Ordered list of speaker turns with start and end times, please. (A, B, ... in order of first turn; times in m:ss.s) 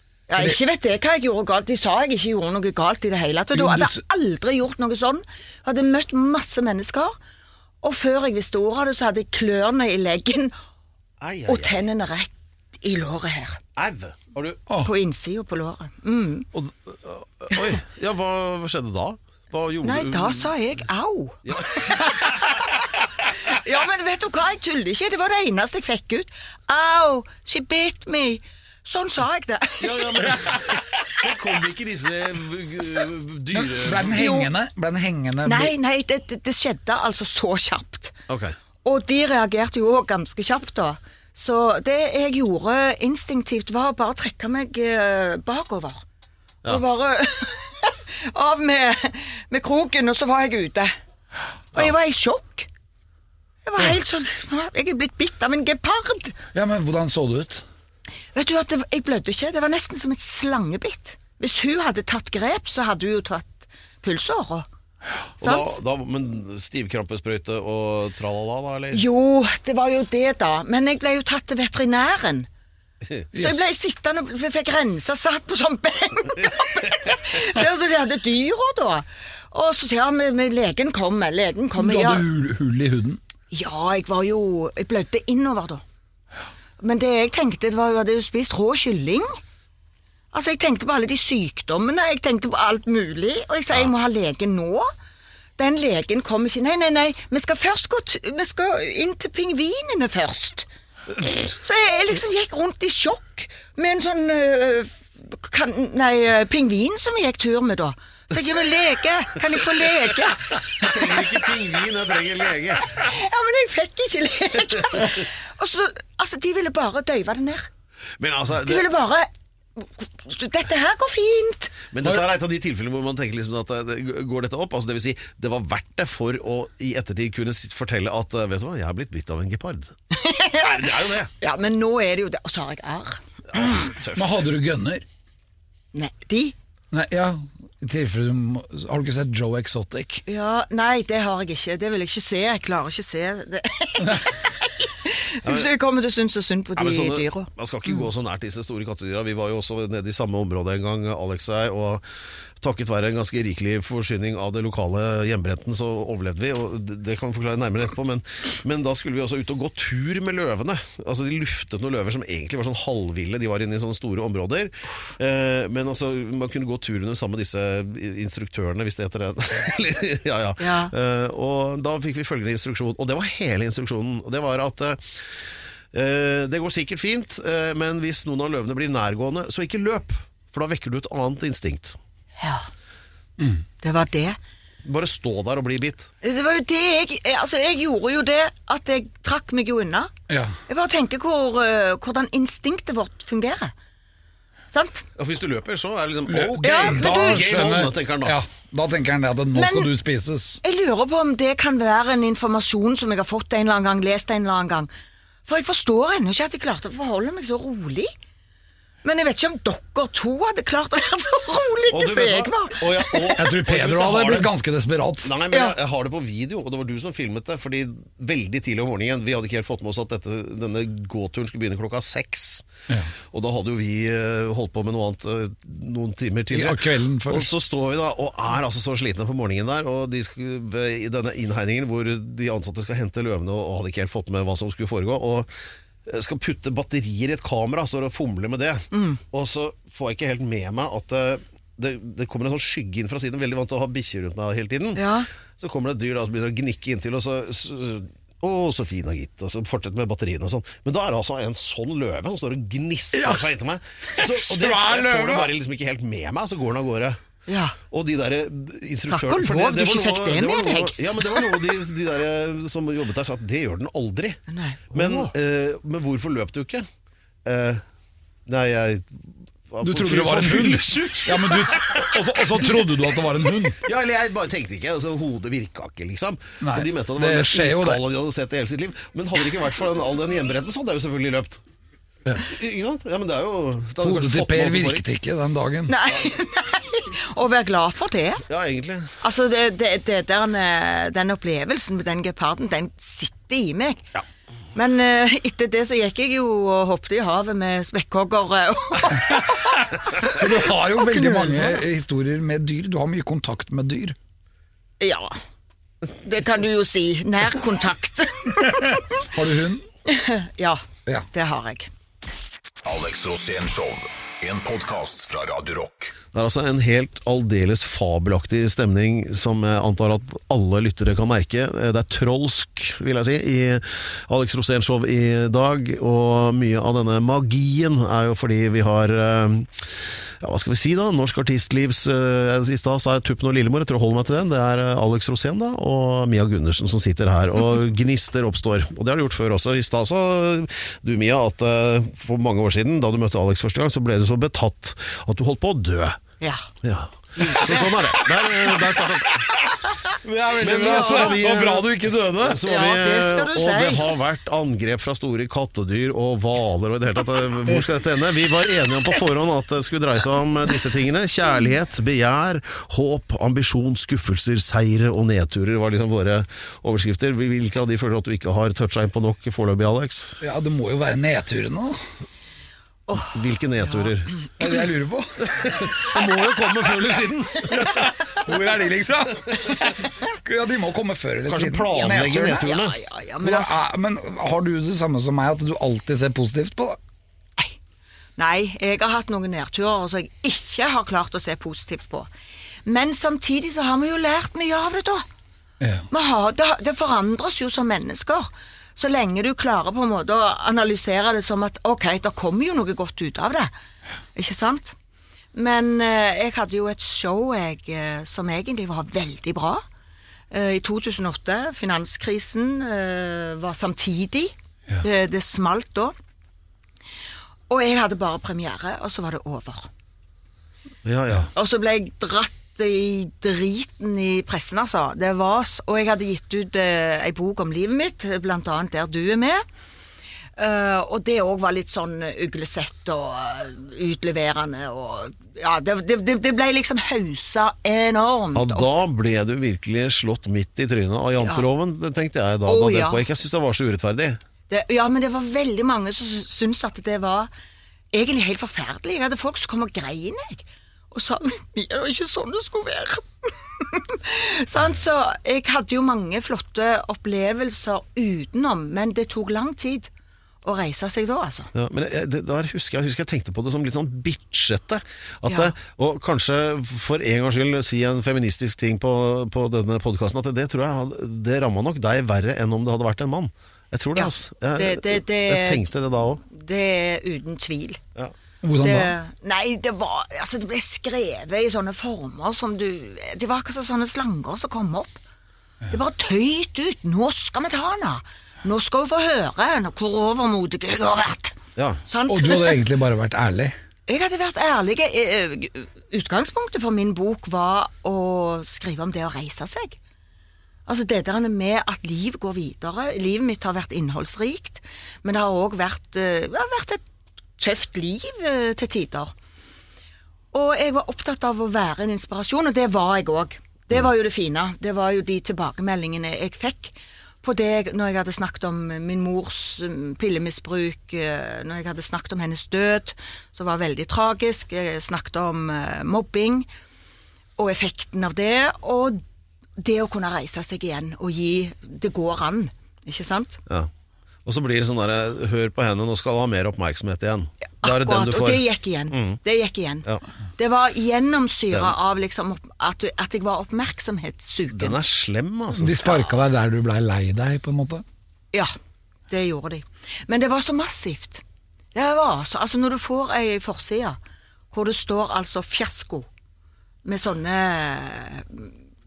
0:00.3-0:07.2 A
0:03.5-0:04.0 B
0:07.8-0:10.5 A
0:11.2-0:11.8 C
0:11.5-0:13.6 A
0:13.8-0:14.6 C
0:14.8-0:16.5 A
0:16.5-0:20.5 C
0:19.8-0:30.3 A
0:21.4-0:22.4 C
0:29.8-0:34.2 C
0:33.5-0:35.7 B
0:34.1-0:34.5 A
0:35.4-0:38.1 A
0:38.3-0:38.5 C
0:38.8-0:46.0 A
0:46.6-0:50.9 A
0:51.7-0:52.7 A
0:53.6-0:56.4 A
0:56.5-0:57.6 B
0:58.3-1:04.7 A
1:05.4-1:09.0 C
1:05.4-1:05.8 A
1:08.9-1:12.5 A
1:13.3-1:13.7 B
1:13.3-1:22.2 A
1:16.5-1:17.1 C
1:21.8-1:23.2 B
1:23.5-1:25.8 A
1:26.8-1:29.4 A
1:30.3-1:34.9 A
1:35.6-1:40.7 A
1:41.3-1:51.4 A
1:50.8-1:53.0 C
1:52.9-1:57.7 A
1:58.2-1:58.9 C
1:58.6-2:01.8 A
2:01.9-2:09.9 C
2:10.1-2:13.2 A
2:10.6-2:11.3 C
2:13.5-2:14.4 C
2:14.1-2:15.0 B
2:15.9-2:16.5 A
2:16.9-2:20.2 B
2:20.2-2:27.5 A
2:25.4-2:25.7 C
2:26.8-2:32.0 C
2:32.6-2:55.0 C
2:50.6-2:50.9 A
2:55.9-3:02.0 C
3:02.4-3:02.7 A
3:03.8-3:04.4 A
3:04.8-3:06.1 C
3:06.2-3:10.1 A
3:10.3-3:10.5 B
3:10.7-3:13.7 A
3:14.7-3:15.0 A
3:15.2-3:18.4 C
3:16.3-3:20.6 B
3:16.6-3:17.6 A
3:19.5-3:19.9 A
3:20.6-3:24.9 A
3:25.4-3:28.1 A
3:29.0-3:33.4 A
3:31.9-3:34.5 C
3:33.3-3:35.3 B
3:35.2-3:42.6 C
3:35.5-3:35.8 A
3:43.3-3:55.5 C
3:46.5-3:47.5 B
3:56.0-4:05.0 C
3:58.9-3:59.2 A
4:05.0-4:05.3 A
4:05.6-4:17.2 C
4:13.1-4:13.4 B
4:14.1-4:15.5 B
4:17.5-4:17.8 A
4:17.9-4:24.4 C
4:19.1-4:21.5 A
4:24.5-4:25.3 A
4:24.9-4:26.9 C
4:27.4-4:27.8 C
4:28.5-4:32.1 C
4:29.8-4:33.8 B
4:33.8-4:41.6 C
4:36.6-4:38.0 B
4:42.4-4:45.0 C
4:44.0-4:45.9 B
4:45.9-4:48.4 A
4:48.5-4:49.1 C
4:49.2-4:54.0 A
4:54.7-5:01.8 A
4:59.3-4:59.6 B
5:00.2-5:04.2 B
5:05.0-5:05.4 A
5:06.1-5:09.2 A
5:09.2-5:09.8 B
5:10.0-5:10.8 A
5:11.3-5:11.9 A
5:12.8-5:16.1 D
5:16.3-5:29.9 C
5:30.4-5:46.2 C
5:46.4-5:46.7 A
5:46.8-5:49.5 C
5:47.4-5:47.9 A
5:50.2-5:52.6 B
5:50.5-6:10.4 C
5:50.6-5:51.4 A
5:52.6-5:54.1 A
6:10.4-6:12.0 B
6:13.1-6:14.1 A
6:13.3-6:14.3 C
6:14.6-6:15.9 B
6:15.6-6:17.9 C
6:17.7-6:22.7 B
6:21.4-6:23.0 C
6:22.0-6:23.8 A
6:23.4-6:27.0 B
6:28.4-6:32.3 A
6:32.8-6:35.2 A
6:35.8-6:36.0 B
6:36.1-6:43.7 A
6:44.3-6:45.0 A
6:45.5-6:49.8 A
6:50.5-6:56.1 A
6:57.7-6:59.9 A
7:01.0-7:01.5 C
7:01.5-7:09.6 A
7:10.6-7:18.9 A
7:18.5-7:24.4 C
7:21.4-7:21.6 A
7:22.6-7:23.2 A
7:24.7-7:27.5 A
7:28.1-7:40.1 A
7:40.6-7:41.7 A
7:41.7-7:56.4 C
7:45.5-7:45.7 A
7:54.2-7:55.9 A
7:56.4-7:58.0 A
7:58.6-7:59.1 B
7:58.8-8:05.2 A
8:05.9-8:12.8 A
8:11.8-8:12.0 C
8:12.3-8:13.7 B
8:14.1-8:20.0 A
8:20.8-8:27.0 A
8:27.6-8:29.3 A
8:30.5-8:46.7 A
8:47.6-8:49.2 A
8:49.8-8:53.6 A
8:54.4-8:59.4 C
8:57.8-9:05.0 A
9:04.7-9:06.0 C
9:05.7-9:08.0 B
9:06.0-9:06.3 A
9:09.3-9:11.4 A
9:11.9-9:14.2 A
9:14.7-9:16.3 A
9:17.0-9:18.7 A